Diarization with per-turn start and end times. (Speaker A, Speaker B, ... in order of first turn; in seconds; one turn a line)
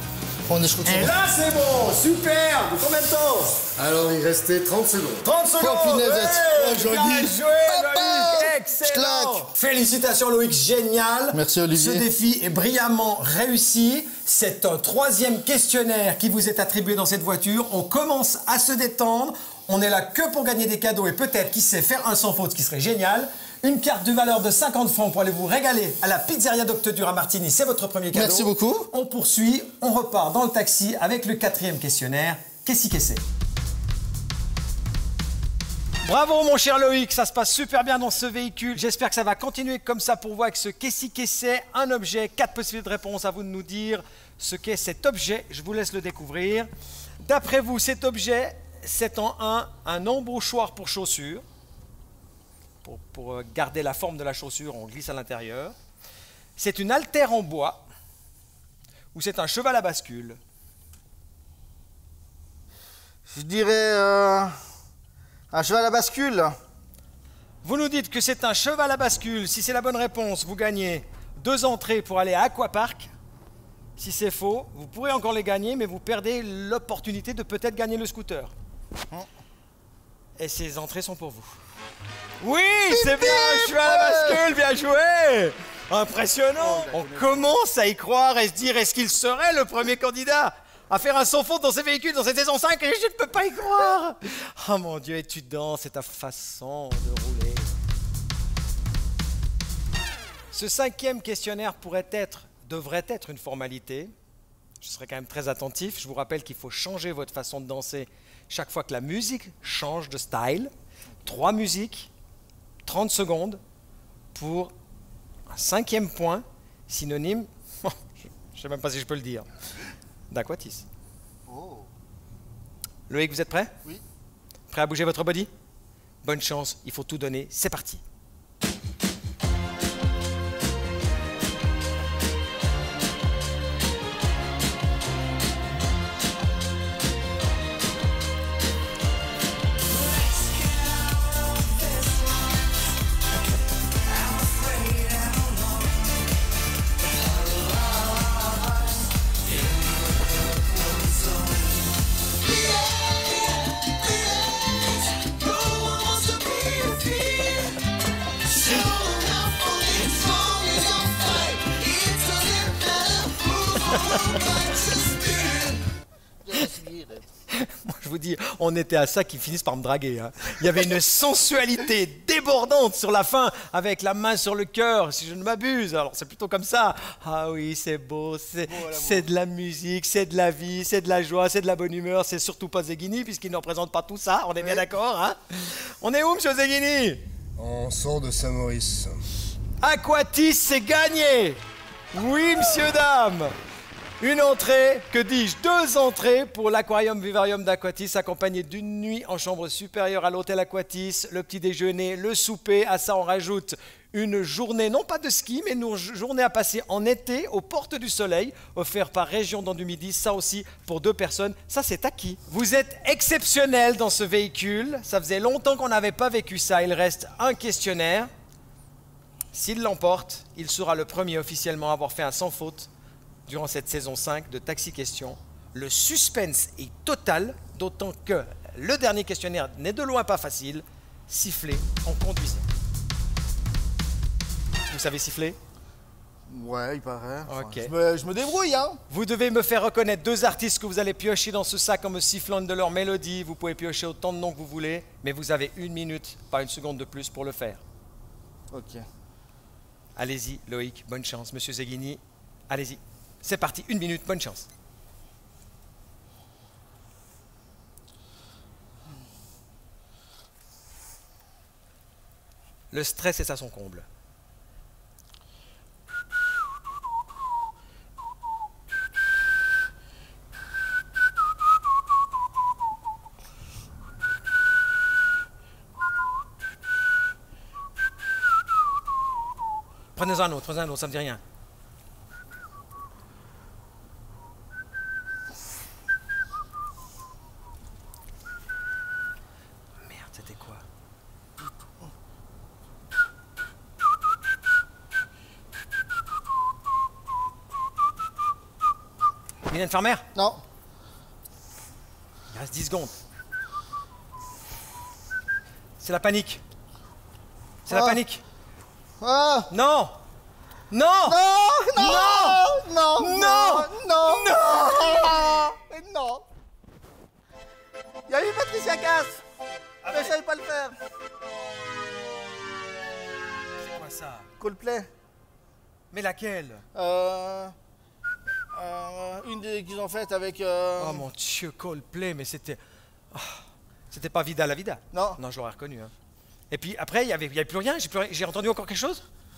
Speaker A: 0.5-1.2
Speaker B: 0.8-3.6
Speaker C: 3.8-5.2
Speaker B: 5.2-33.2
Speaker A: 5.6-9.5
Speaker A: 11.3-12.1
Speaker A: 28.1-28.9
Speaker B: 36.0-46.7
Speaker B: 47.2-51.4
Speaker B: 52.8-55.8
Speaker B: 56.6-57.8
Speaker B: 59.1-60.4
Speaker A: 63.3-64.5
Speaker A: 65.5-66.5
Speaker B: 67.6-73.1
Speaker B: 74.0-78.5
Speaker B: 80.4-81.5
Speaker B: 82.4-97.7
Speaker A: 82.9-84.4
Speaker A: 86.6-87.5
Speaker B: 100.5-104.1
Speaker B: 104.8-110.7
Speaker B: 111.2-112.1
Speaker B: 112.8-113.6
Speaker B: 114.3-114.7
Speaker B: 115.5-119.5
Speaker B: 120.3-120.8
Speaker A: 121.5-121.9
Speaker B: 123.1-123.7
Speaker B: 124.7-125.5
Speaker B: 126.2-128.0
Speaker A: 159.2-163.4
Speaker B: 163.8-164.6
Speaker A: 164.4-165.7
Speaker A: 166.4-167.2
Speaker B: 167.5-187.2
Speaker A: 178.7-179.3
Speaker A: 184.6-184.8
Speaker C: 187.6-189.2
Speaker B: 189.8-191.6
Speaker B: 192.1-193.5
Speaker B: 194.2-218.3
Speaker B: 219.5-222.9
Speaker B: 223.5-232.7
Speaker B: 234.9-235.6
Speaker A: 236.5-239.0
Speaker B: 237.5-237.9
Speaker B: 239.1-247.8
Speaker A: 248.7-249.0
Speaker B: 250.2-254.7
Speaker B: 262.9-264.1
Speaker B: 280.1-281.4
Speaker B: 290.0-290.8
Speaker B: 299.7-300.2
Speaker A: 300.3-300.6
Speaker B: 302.5-303.1
Speaker B: 306.0-306.6
Speaker B: 307.9-308.4
Speaker A: 307.9-308.2
Speaker A: 309.2-309.7
Speaker B: 309.7-310.2
Speaker B: 310.9-311.4
Speaker A: 311.2-316.4
Speaker B: 311.9-312.6
Speaker B: 313.2-315.4
Speaker A: 318.3-319.4
Speaker B: 320.0-320.4
Speaker A: 320.1-320.9
Speaker B: 323.8-324.5
Speaker A: 324.6-325.1
Speaker B: 326.1-326.8
Speaker A: 326.9-327.7
Speaker A: 328.7-331.2
Speaker B: 331.0-332.8
Speaker B: 333.3-336.1
Speaker A: 335.1-335.4
Speaker B: 336.7-339.2